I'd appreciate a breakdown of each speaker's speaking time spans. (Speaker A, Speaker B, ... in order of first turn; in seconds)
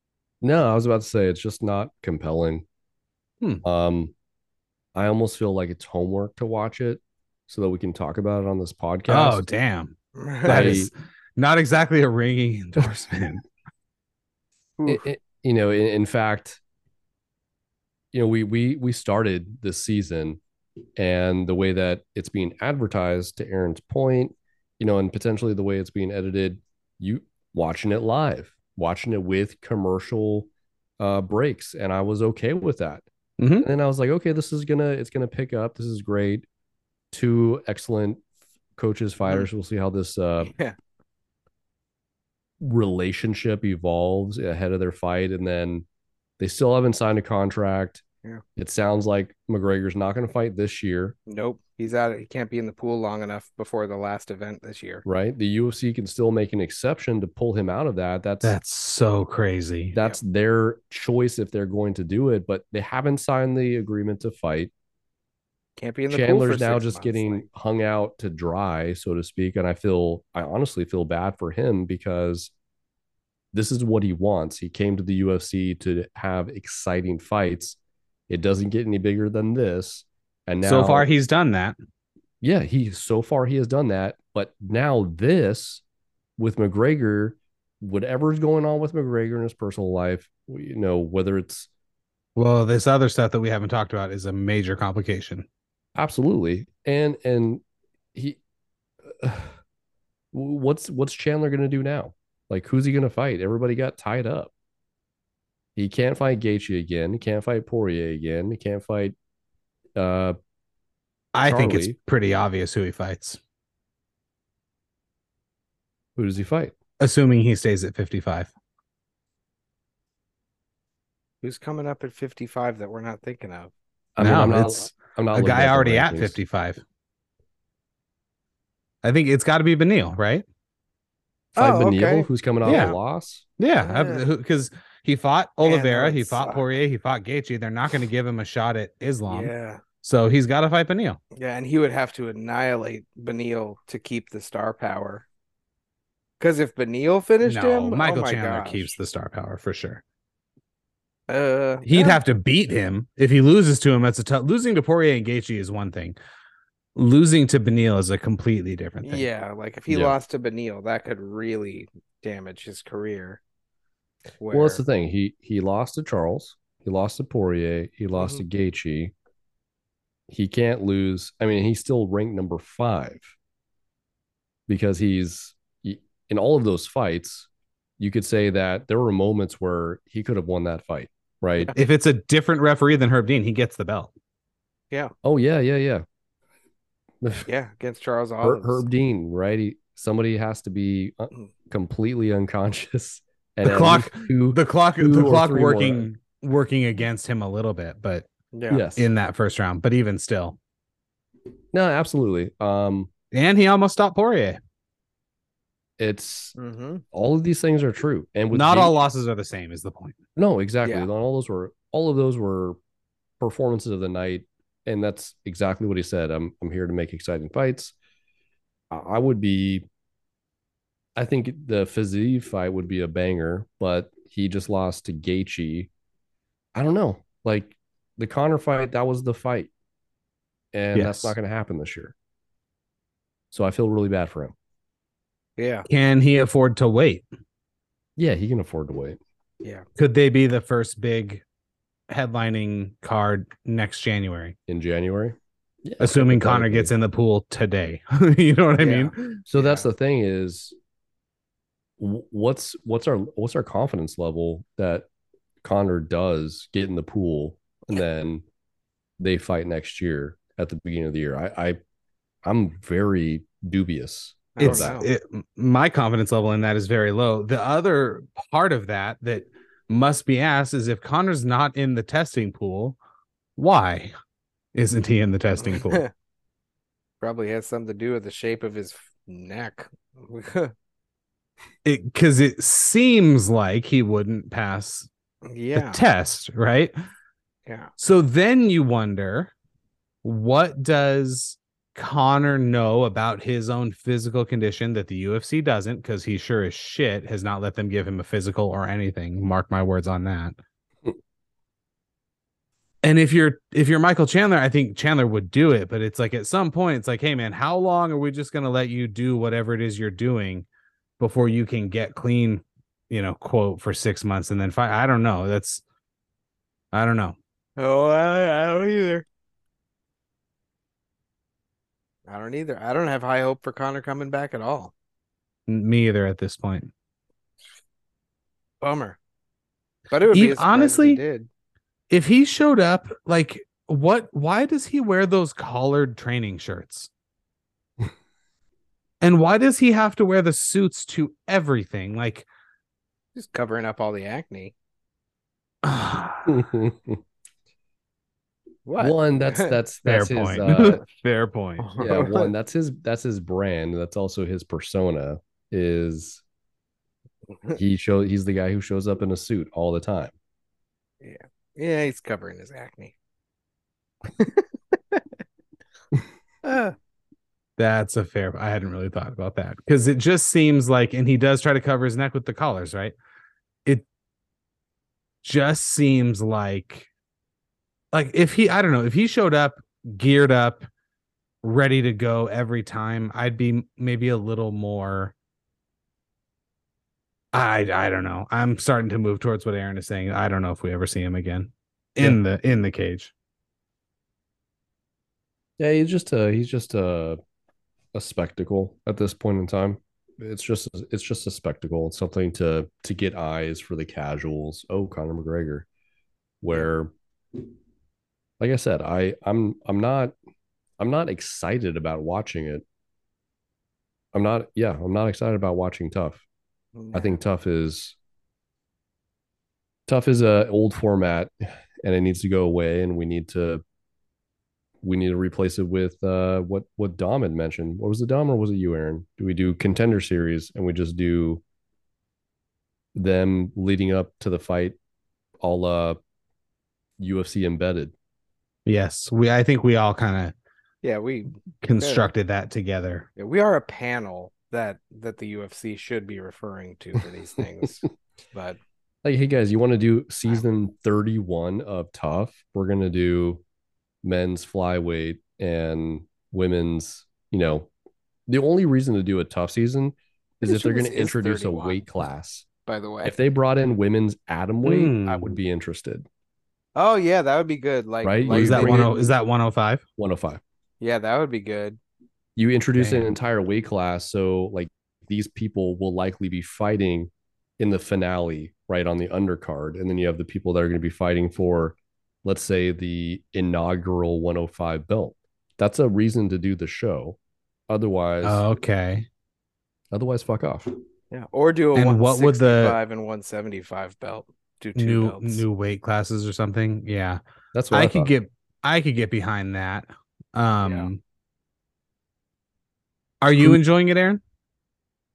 Speaker A: 0.4-2.6, 3.6-4.1, 4.9-9.4, 10.4-10.9, 14.9-16.6, 18.1-20.4, 20.9-33.0, 33.6-36.4, 37.1-38.2, 38.8-40.5, 42.6-45.9, 46.4-48.0, 48.5-51.1, 55.0-58.6, 59.9-64.7, 66.1-72.5, 73.5-77.8, 78.3-81.1, 82.4-85.8, 86.4-91.7, 96.0-97.6, 98.1-98.4, 99.0-99.5, 100.3-104.5, 105.8-109.1, 110.0-110.3, 111.5-111.9, 116.2-116.7, 124.2-126.4, 131.5-133.4, 159.9-160.2, 164.5-169.1, 170.3-173.3, 174.7-177.5, 178.0-181.7, 185.2-186.0, 187.2-187.5, 188.4-196.0, 198.7-199.1, 201.7-203.1, 206.0-206.5, 207.1-208.9, 210.3-212.8, 213.4-217.9, 218.9-219.8, 221.2-225.9, 226.7-229.7, 230.7-232.1, 233.5-234.5, 238.2-239.2, 244.7-246.9, 249.5-250.7, 252.0-255.1, 255.6-258.4, 259.2-261.8, 262.4-265.0, 346.5-347.2, 349.0-351.0, 352.0-356.4, 357.8-360.3, 395.8-397.4, 398.1-405.9, 406.6-407.1, 408.6-410.3, 411.0-412.8, 414.3-416.4, 417.1-418.1, 420.1-421.5, 422.0-423.8, 425.0-431.6, 433.1-434.9, 435.6-436.2, 437.2-438.1, 449.2-453.6, 454.2-457.9, 458.5-462.6, 463.2-466.2, 468.2-469.1, 470.2-470.6, 472.6-487.4, 487.9-488.6, 490.1-490.9, 497.7-498.3
Speaker B: 9.1-13.4, 33.4-33.7, 58.4-60.0, 80.6-81.8, 92.3-95.5, 111.3-113.4, 117.0-118.5, 124.2-126.8, 129.0-130.4, 132.6-132.9, 133.6-139.5, 140.0-141.2, 147.4-150.0, 151.8-156.2, 156.9-159.2, 181.8-184.1, 193.6-198.3, 199.0-200.6, 203.3-204.6, 208.5-210.2, 230.9-231.3, 235.9-237.2, 240.0-241.4, 242.1-244.6, 246.0-249.4, 264.6-273.0, 273.6-274.1, 274.7-276.0, 281.8-285.1, 285.7-286.9, 288.0-289.5, 290.2-300.6, 303.0-310.6, 311.2-315.8, 316.9-317.4, 325.7-326.9, 330.3-331.2, 332.1-337.1, 339.2-342.4, 345.8-346.6, 350.0-351.9, 367.8-373.1, 375.4-377.1, 378.1-380.9, 381.6-385.3, 387.5-393.3, 438.9-440.5, 441.8-443.3, 464.8-465.6, 468.5-470.0, 473.0-473.3, 488.4-489.3, 491.9-493.0, 494.9-497.4, 497.9-501.2, 503.4-504.4
Speaker C: 10.2-10.8, 14.8-15.0, 40.4-40.7, 51.3-55.0, 65.8-67.5, 121.4-123.7, 131.6-132.9, 133.8-134.2, 135.6-136.6, 139.3-139.8, 141.3-145.2, 146.4-149.0, 151.3-152.2, 159.0-163.4, 164.4-164.8, 168.2-168.4, 187.5-188.8, 198.5-198.8, 206.6-207.0, 210.8-211.1, 235.6-235.9, 248.8-249.8, 264.5-265.1, 275.6-276.1, 277.2-280.7, 285.4-286.0, 287.6-287.9, 317.8-319.2, 322.3-324.9, 328.8-329.2, 330.1-331.5, 343.3-344.7, 348.9-349.8, 351.8-352.5, 361.2-363.1, 364.3-365.2, 366.6-366.9, 416.9-417.4, 441.0-442.2, 443.4-448.8, 460.6-462.0, 462.9-463.3, 466.9-469.3, 471.0-472.0, 491.3-495.6, 500.8-501.1